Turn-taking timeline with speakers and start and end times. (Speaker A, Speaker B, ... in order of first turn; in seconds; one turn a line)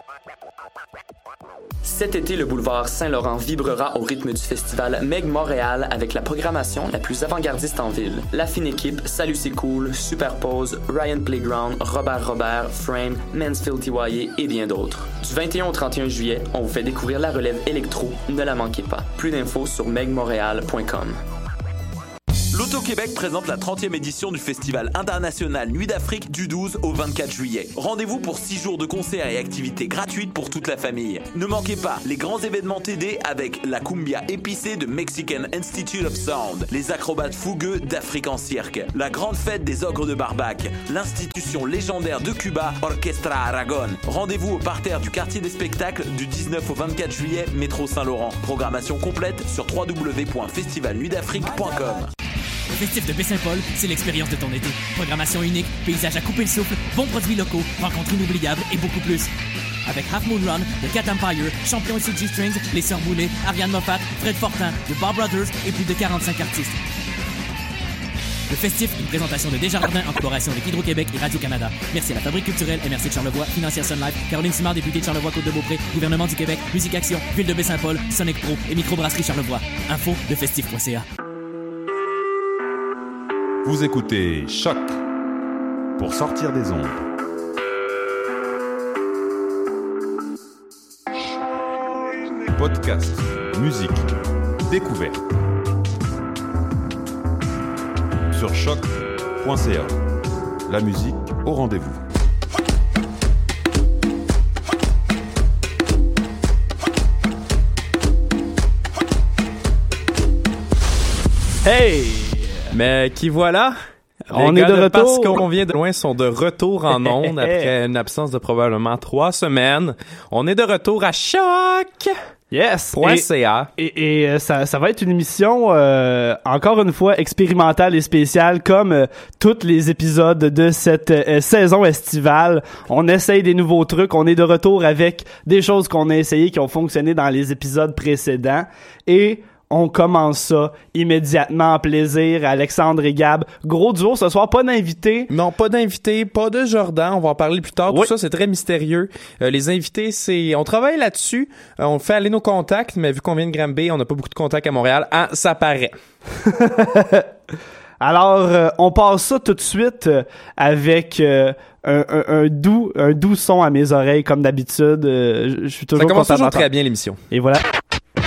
Speaker A: 1.8-21.2
Speaker B: 22.5-52.1
Speaker C: 52.7-59.3
Speaker C: 59.9-66.8
Speaker C: 68.5-81.0
Speaker D: 83.6-85.0
Speaker D: 86.0-87.0
Speaker D: 92.5-94.1
Speaker D: 94.7-95.2
Speaker D: 98.3-100.0
Speaker D: 100.7-102.0
Speaker E: 111.6-112.7
Speaker F: 112.7-113.8
Speaker F: 114.3-122.1
Speaker E: 114.3-115.4
Speaker E: 117.0-117.7
Speaker E: 122.5-123.2
Speaker F: 122.9-123.7
Speaker E: 123.8-145.3
Speaker F: 145.3-155.9
Speaker E: 156.4-157.3
Speaker E: 158.0-166.7
Speaker F: 165.9-167.2
Speaker E: 167.3-167.6